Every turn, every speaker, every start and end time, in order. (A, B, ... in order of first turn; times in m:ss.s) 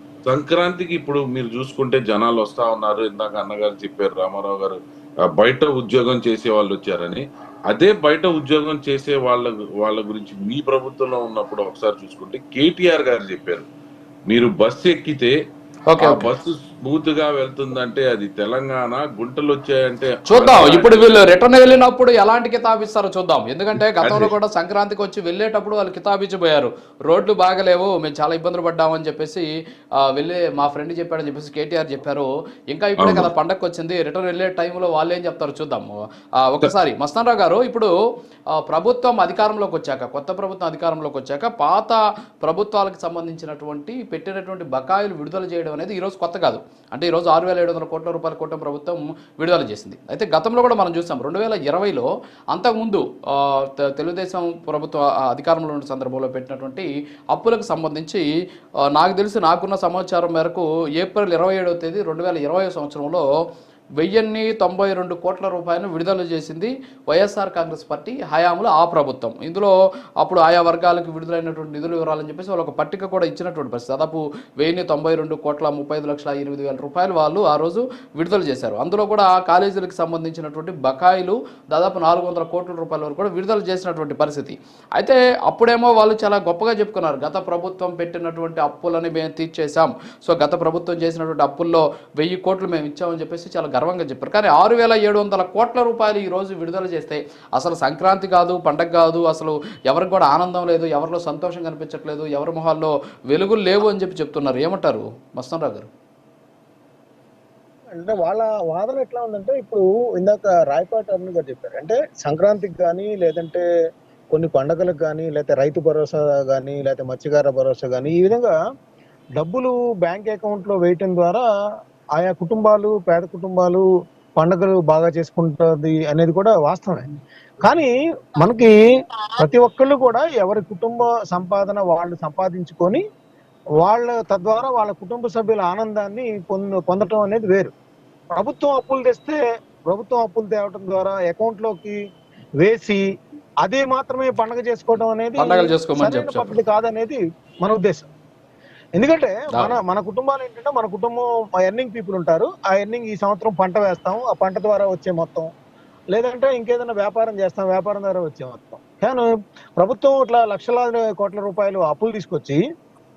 0:00.2-0:13.7 A
0:14.3-0:15.3 A
0:15.9-0:16.2 B
0:16.0-0:21.3 A
0:20.3-0:37.9 B
0:24.0-0:24.3 A
0:33.0-0:33.3 A
0:38.5-0:58.2 B
0:58.9-1:03.2 B
1:04.0-1:45.9 B
1:47.9-1:53.6 C
1:54.3-1:58.5 C
1:59.4-2:01.4 C
2:02.2-2:03.8 C
2:04.4-2:07.0 C
2:07.6-2:08.8 C
2:09.4-2:13.0 C
2:13.8-2:17.7 C
2:18.3-2:22.0 C
2:22.6-2:23.0 C
2:23.6-2:28.1 C
2:25.4-2:26.6 B
2:29.0-2:35.5 C
2:36.1-2:42.6 C